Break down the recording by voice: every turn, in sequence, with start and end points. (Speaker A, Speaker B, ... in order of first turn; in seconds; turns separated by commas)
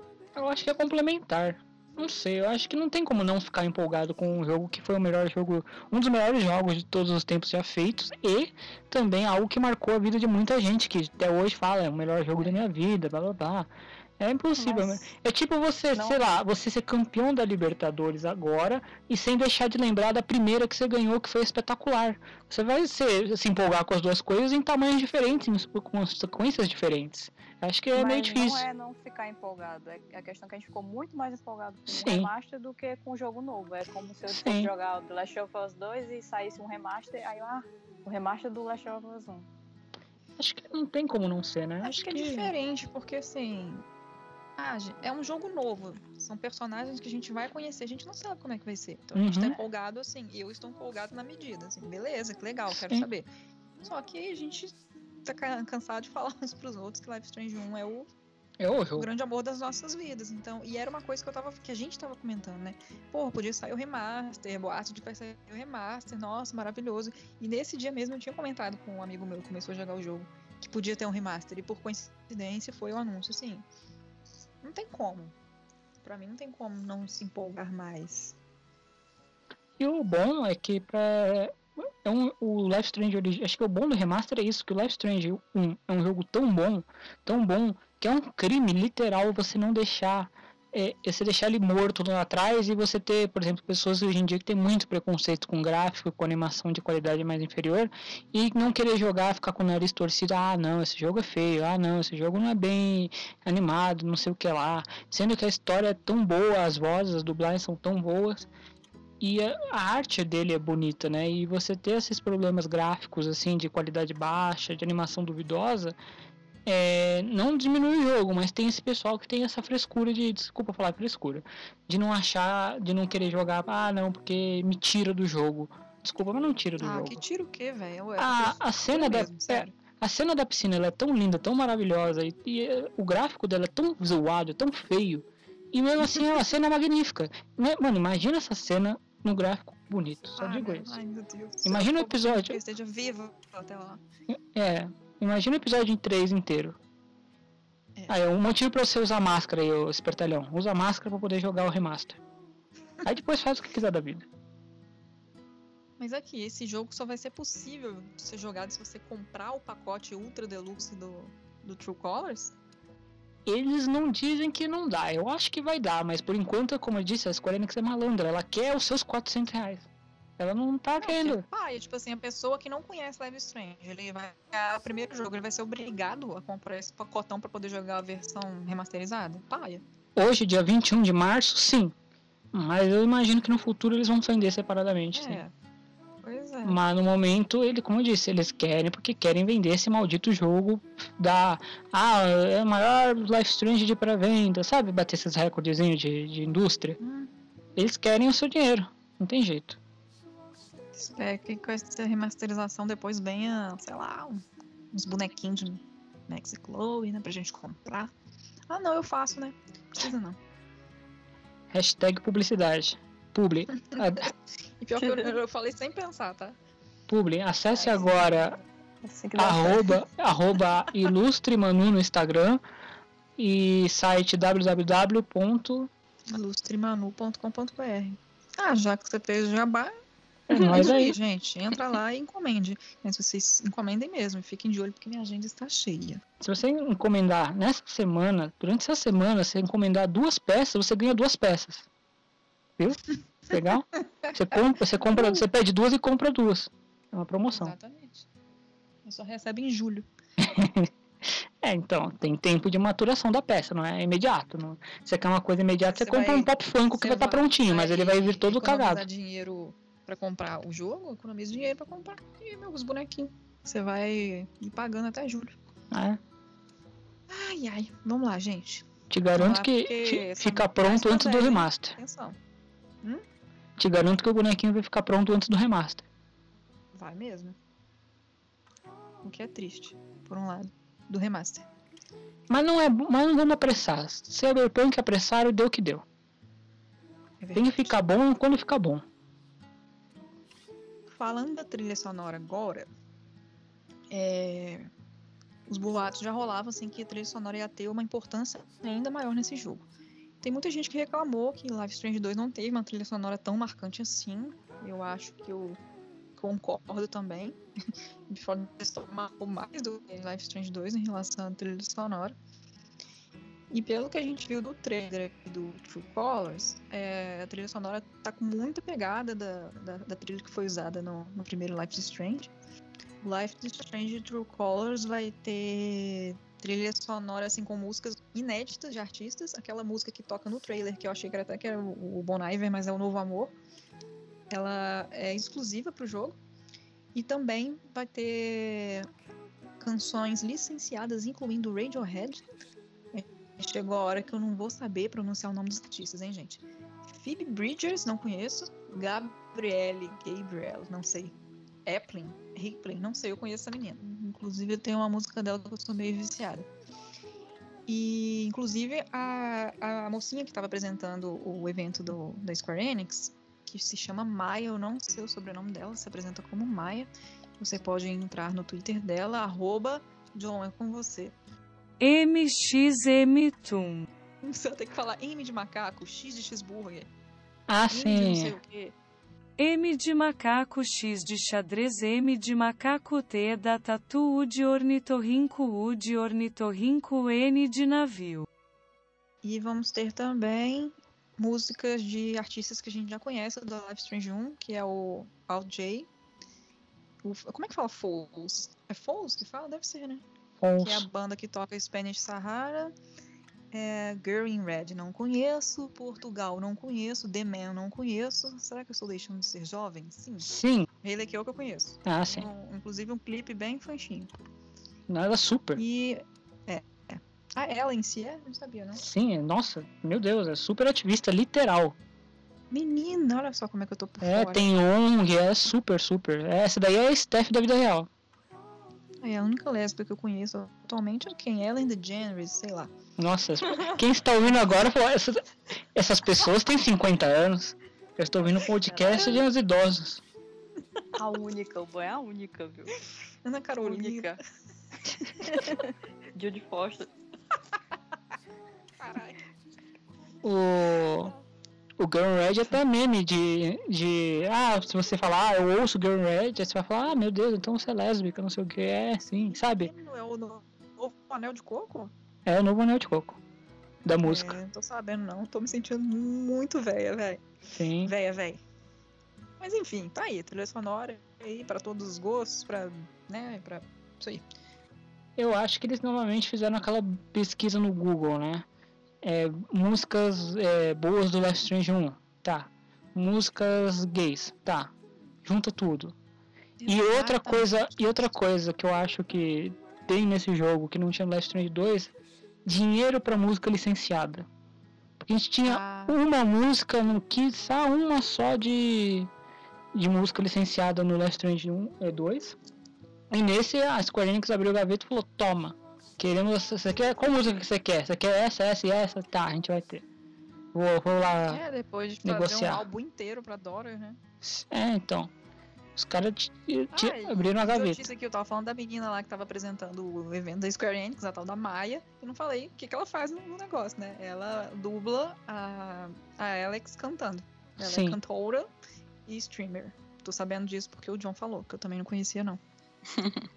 Speaker A: 0.3-28.7, Speaker B: 14.6-15.1, Speaker B: 15.9-16.2, Speaker B: 27.9-39.5, Speaker A: 31.9-32.3, Speaker A: 34.3-34.7, Speaker A: 40.4-42.5, Speaker C: 41.8-43.9, Speaker C: 44.6-53.3, Speaker A: 49.1-49.6, Speaker A: 52.7-53.1, Speaker C: 53.8-58.1, Speaker A: 58.6-59.1, Speaker C: 59.0-73.7, Speaker C: 74.6-75.3, Speaker C: 76.0-78.4, Speaker A: 79.8-108.5, Speaker A: 109.2-116.0, Speaker A: 116.7-127.2, Speaker C: 126.8-129.7, Speaker A: 128.2-141.0, Speaker C: 140.4-144.0, Speaker A: 141.7-142.6, Speaker A: 144.3-146.8, Speaker A: 148.1-152.2, Speaker A: 153.0-154.3, Speaker C: 156.0-162.6, Speaker A: 163.5-171.4, Speaker C: 171.0-179.8, Speaker A: 180.2-181.9, Speaker A: 182.5-185.4, Speaker C: 185.1-185.5, Speaker C: 186.2-186.8, Speaker A: 186.6-197.0, Speaker C: 197.0-197.3, Speaker A: 197.8-199.8, Speaker C: 200.9-208.1, Speaker C: 208.7-210.4, Speaker A: 211.7-214.3, Speaker C: 214.8-216.6, Speaker B: 215.0-215.3, Speaker A: 217.1-218.6, Speaker C: 217.7-218.6, Speaker B: 219.0-220.0, Speaker A: 219.4-222.6, Speaker A: 223.4-225.9, Speaker C: 226.3-229.9, Speaker A: 230.5-231.2, Speaker C: 230.5-236.2, Speaker A: 236.4-241.9, Speaker A: 242.8-247.8, Speaker C: 245.1-245.4, Speaker C: 247.5-248.3, Speaker C: 249.1-250.1, Speaker A: 250.4-259.1, Speaker C: 255.8-265.6, Speaker A: 265.9-266.2, Speaker C: 267.3-272.4, Speaker A: 269.1-272.0, Speaker A: 273.8-276.1, Speaker C: 276.9-277.6, Speaker C: 279.2-281.7, Speaker A: 282.5-286.1, Speaker C: 287.4-288.0, Speaker A: 287.6-289.0, Speaker C: 291.1-292.9, Speaker C: 294.1-294.9, Speaker C: 295.7-299.9, Speaker C: 300.4-305.8, Speaker C: 306.4-307.6, Speaker C: 308.3-312.4, Speaker C: 313.7-322.5, Speaker C: 323.2-333.5, Speaker C: 334.5-336.4, Speaker C: 337.1-339.1, Speaker C: 339.8-342.5, Speaker C: 343.1-346.6, Speaker C: 347.1-351.4, Speaker C: 351.9-356.7, Speaker C: 357.9-371.4, Speaker D: 372.0-374.1, Speaker C: 374.4-377.1, Speaker A: 377.7-378.6, Speaker C: 377.9-378.9, Speaker D: 379.6-388.5, Speaker C: 389.4-396.1, Speaker C: 397.2-400.2, Speaker A: 400.6-401.1, Speaker C: 400.8-402.9, Speaker C: 403.7-410.5, Speaker A: 410.4-410.9, Speaker C: 411.0-414.3, Speaker A: 412.1-412.5, Speaker A: 415.1-415.8, Speaker C: 415.8-419.0, Speaker A: 419.0-422.0, Speaker C: 422.7-424.7, Speaker A: 424.2-428.1, Speaker C: 429.2-432.9, Speaker A: 433.2-435.4, Speaker A: 435.9-440.2, Speaker B: 438.9-439.4, Speaker B: 441.1-443.0, Speaker C: 443.4-444.4, Speaker B: 443.8-444.4, Speaker C: 445.3-445.5, Speaker B: 445.4-447.1, Speaker C: 449.0-449.4, Speaker A: 450.4-451.4, Speaker A: 452.0-459.9, Speaker C: 459.5-462.1, Speaker A: 462.5-463.4, Speaker A: 464.1-464.6, Speaker C: 464.2-467.4, Speaker A: 467.7-468.1, Speaker C: 468.0-468.6, Speaker C: 469.6-474.4, Speaker A: 475.4-478.7, Speaker A: 479.2-484.9, Speaker A: 485.4-486.1, Speaker C: 486.8-488.0, Speaker A: 486.9-494.5, Speaker A: 495.2-499.3, Speaker C: 495.7-496.2, Speaker A: 499.9-502.6, Speaker A: 503.3-510.1, Speaker A: 510.7-511.6, Speaker C: 511.5-514.2, Speaker A: 512.2-512.9, Speaker A: 514.4-515.3, Speaker A: 516.0-518.1, Speaker C: 516.9-528.7, Speaker A: 527.8-528.2, Speaker C: 529.3-532.6, Speaker B: 533.1-533.5